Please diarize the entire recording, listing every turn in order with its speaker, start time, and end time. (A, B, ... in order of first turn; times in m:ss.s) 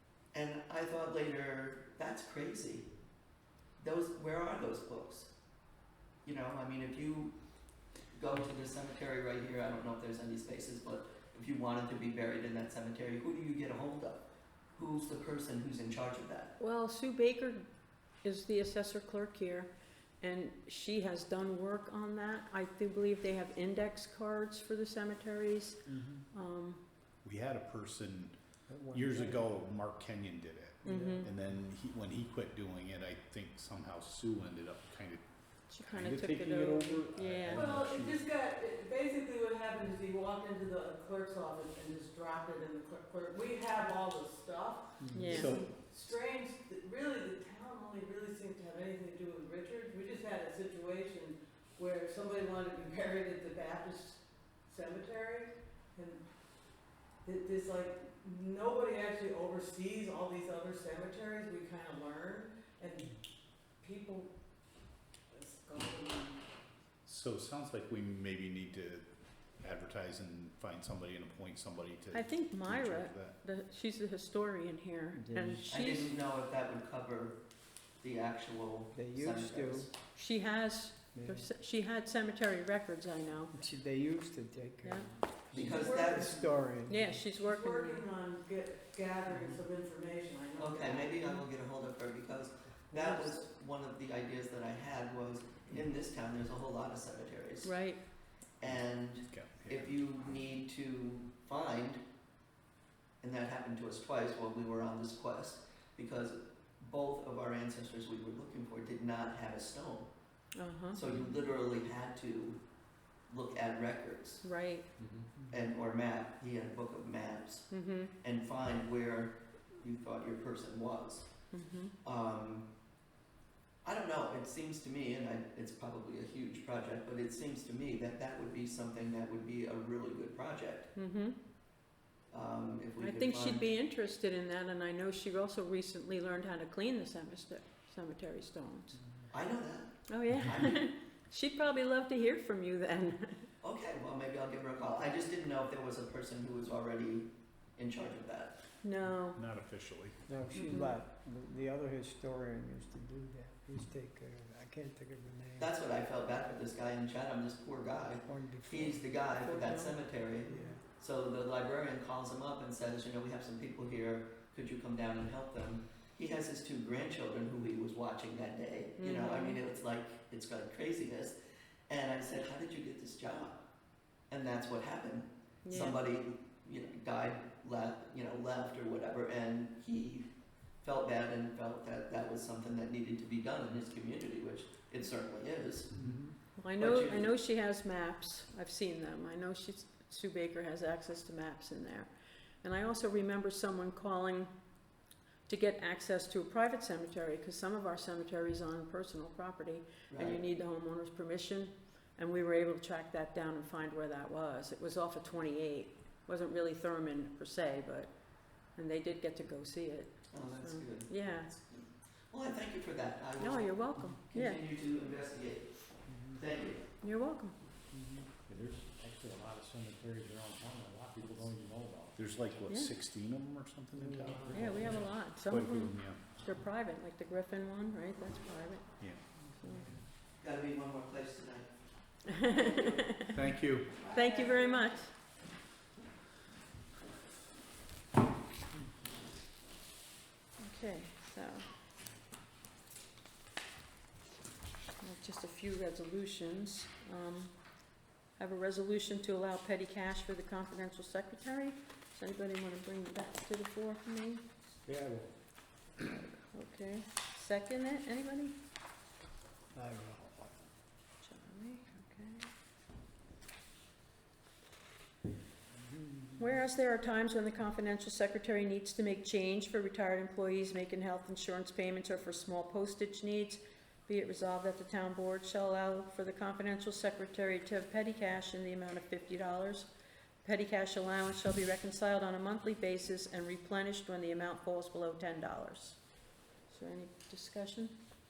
0:00.3-0:02.9 A
0:03.8-0:05.3 A
0:06.2-0:07.3 A
0:08.1-0:14.2 A
0:14.8-0:16.5 A
0:16.6-0:17.6 B
0:18.2-0:19.7 B
0:20.2-0:25.8 B
0:25.9-0:26.3 C
0:26.3-0:26.8 B
0:27.2-0:38.2 D
0:28.7-0:29.5 C
0:30.8-0:31.3 B
0:30.9-0:31.3 C
0:35.7-0:37.7 B
0:37.5-0:56.2 E
0:45.0-0:45.4 C
0:45.1-0:45.6 B
0:45.2-0:45.7 D
0:57.2-1:03.1 E
1:03.8-1:04.3 E
1:05.3-1:06.4 E
1:07.1-1:09.1 D
1:09.6-1:13.4 D
1:12.1-1:16.1 B
1:15.1-1:15.7 C
1:15.7-1:17.4 A
1:18.0-1:19.9 A
1:18.9-1:19.9 C
1:20.1-1:23.6 B
1:21.1-1:21.5 C
1:23.5-1:27.2 C
1:24.8-1:25.1 B
1:25.5-1:26.4 A
1:25.6-1:31.4 E
1:26.9-1:28.0 B
1:29.3-1:29.6 C
1:30.6-1:37.8 A
1:32.9-1:33.4 E
1:37.6-1:38.0 B
1:38.6-1:42.0 A
1:39.3-1:40.0 D
1:43.2-1:50.1 A
1:50.6-1:51.0 B
1:50.9-1:52.6 A
1:53.3-1:54.4 A
1:54.4-1:54.9 B
1:55.5-1:57.7 A
1:57.7-1:58.1 B
1:58.2-2:01.3 A
2:01.5-2:01.9 B
2:02.0-2:02.6 A
2:03.8-2:10.9 A
2:11.0-2:11.3 B
2:12.3-2:13.7 A
2:13.0-2:19.0 B
2:19.3-2:20.8 A
2:20.1-2:23.5 B
2:23.6-2:28.5 A
2:28.8-2:29.4 B
2:29.3-2:30.2 D
2:30.3-2:35.7 C
2:30.5-2:30.9 B
2:35.6-2:51.3 A
2:38.2-2:39.3 C
2:39.4-2:40.0 B
2:40.4-2:40.8 C
2:49.0-2:49.6 B
2:51.9-2:53.6 A
2:54.3-3:00.3 A
2:55.6-2:56.0 B
3:00.8-3:05.9 A
3:06.0-3:06.3 C
3:06.6-3:12.1 B
3:06.8-3:07.3 A
3:12.6-3:14.5 B
3:15.5-3:28.1 B
3:20.1-3:20.4 A
3:28.7-3:31.5 B
3:30.3-3:35.7 A
3:33.4-3:34.6 B
3:36.3-3:36.8 A
3:37.0-3:37.5 B
3:37.9-3:38.3 C
3:38.4-3:42.2 F
3:42.2-3:46.2 D
3:42.7-3:42.9 B
3:43.9-3:45.0 C
3:44.4-3:45.3 F
3:44.5-3:49.0 B
3:49.6-3:49.8 B
3:49.6-3:50.0 C
3:50.4-3:51.7 A
3:52.4-3:53.4 B
3:52.5-3:53.0 A
3:53.3-3:53.9 D
3:54.0-3:54.9 A
3:54.1-3:55.1 B
4:00.6-4:01.6 B
4:05.0-4:07.5 B
4:08.4-4:14.4 B
4:14.8-4:15.3 F
4:16.1-4:18.5 B
4:19.7-4:20.6 C
4:21.2-4:22.5 B
4:25.8-4:26.4 C
4:26.4-4:39.9 B
4:40.4-4:46.0 B
4:46.6-4:47.9 B